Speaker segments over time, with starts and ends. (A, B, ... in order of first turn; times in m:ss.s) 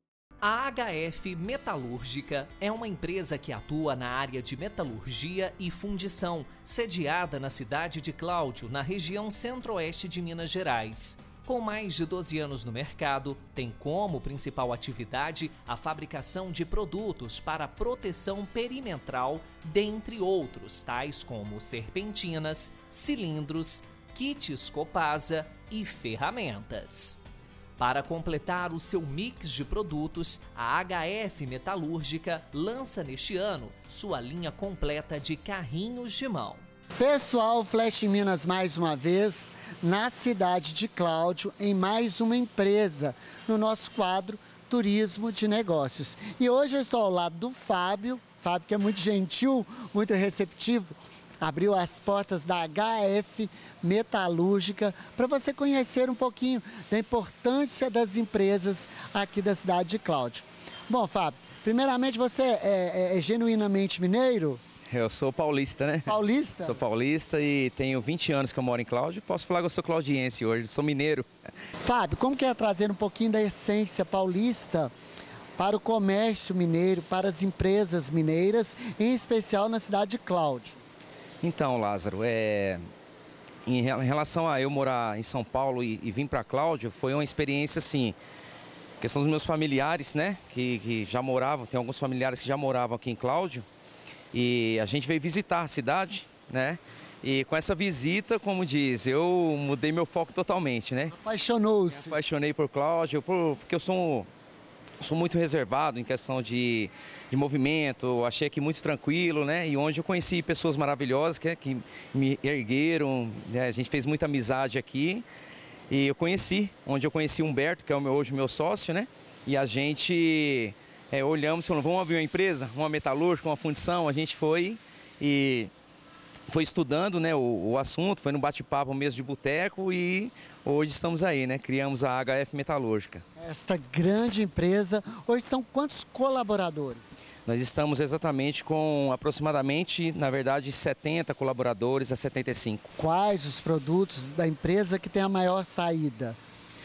0:00.4-0:27.2 A
0:27.8-0:36.6 A
0:37.0-1:04.6 B
1:04.9-1:11.3 C
1:06.1-1:06.8 B
1:11.8-1:14.9 B
1:15.6-1:20.8 B
1:21.4-1:22.8 C
1:23.6-1:28.2 C
1:29.0-1:33.6 C
1:34.3-1:41.1 C
1:41.1-1:42.2 B
1:41.9-1:44.3 C
1:45.0-1:55.2 C
1:55.9-2:05.7 C
2:06.5-2:13.2 C
2:13.4-2:17.2 B
2:17.4-2:22.9 C
2:23.0-2:26.4 B